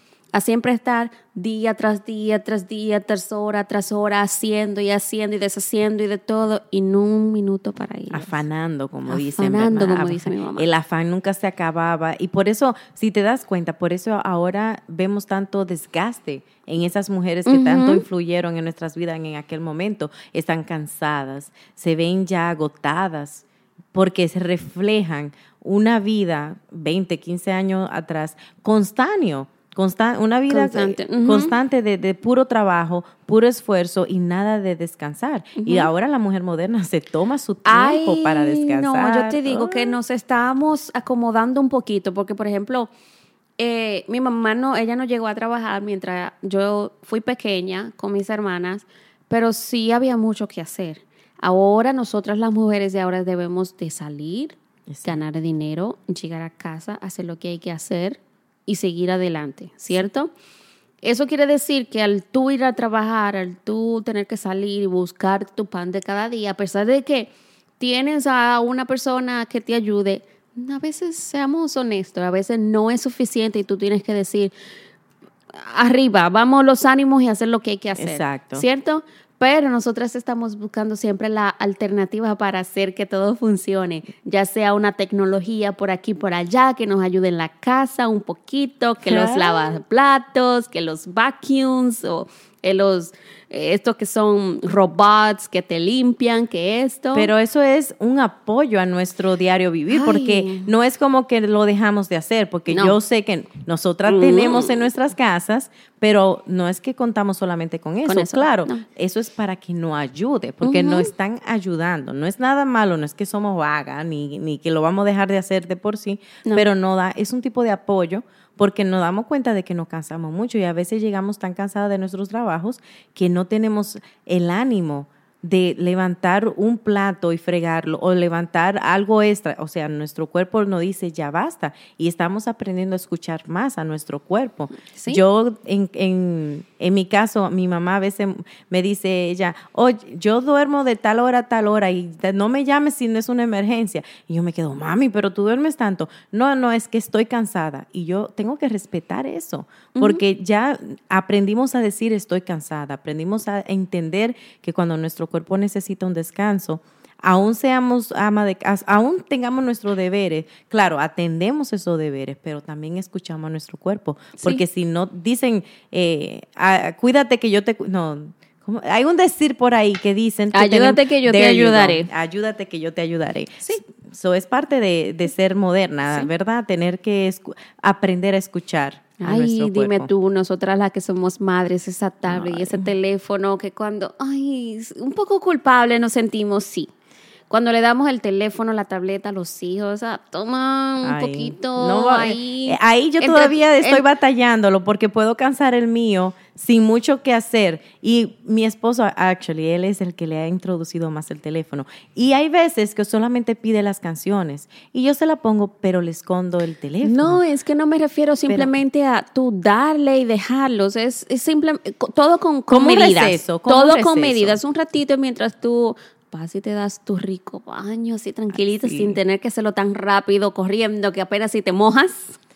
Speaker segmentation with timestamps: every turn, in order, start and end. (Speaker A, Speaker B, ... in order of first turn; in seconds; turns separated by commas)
Speaker A: 0.3-8.4, Speaker B: 8.1-40.0, Speaker A: 9.1-10.7, Speaker A: 17.4-18.0, Speaker A: 30.5-31.5, Speaker A: 35.6-35.9, Speaker A: 37.6-42.9, Speaker A: 43.6-60.3, Speaker B: 54.9-55.2, Speaker A: 61.0-74.5, Speaker A: 75.5-97.3, Speaker B: 78.0-78.7, Speaker B: 89.0-89.8, Speaker B: 97.1-180.1, Speaker A: 99.9-100.7, Speaker A: 102.7-103.0, Speaker A: 104.0-104.8, Speaker A: 108.0-108.8, Speaker A: 110.6-111.1, Speaker A: 134.8-135.2, Speaker A: 149.9-150.2, Speaker A: 170.5-172.1, Speaker A: 179.2-186.9, Speaker B: 182.3-182.9, Speaker A: 187.5-194.0, Speaker B: 191.0-207.4, Speaker A: 207.0-222.4, Speaker B: 208.5-208.7, Speaker B: 212.7-214.6, Speaker B: 218.5-219.2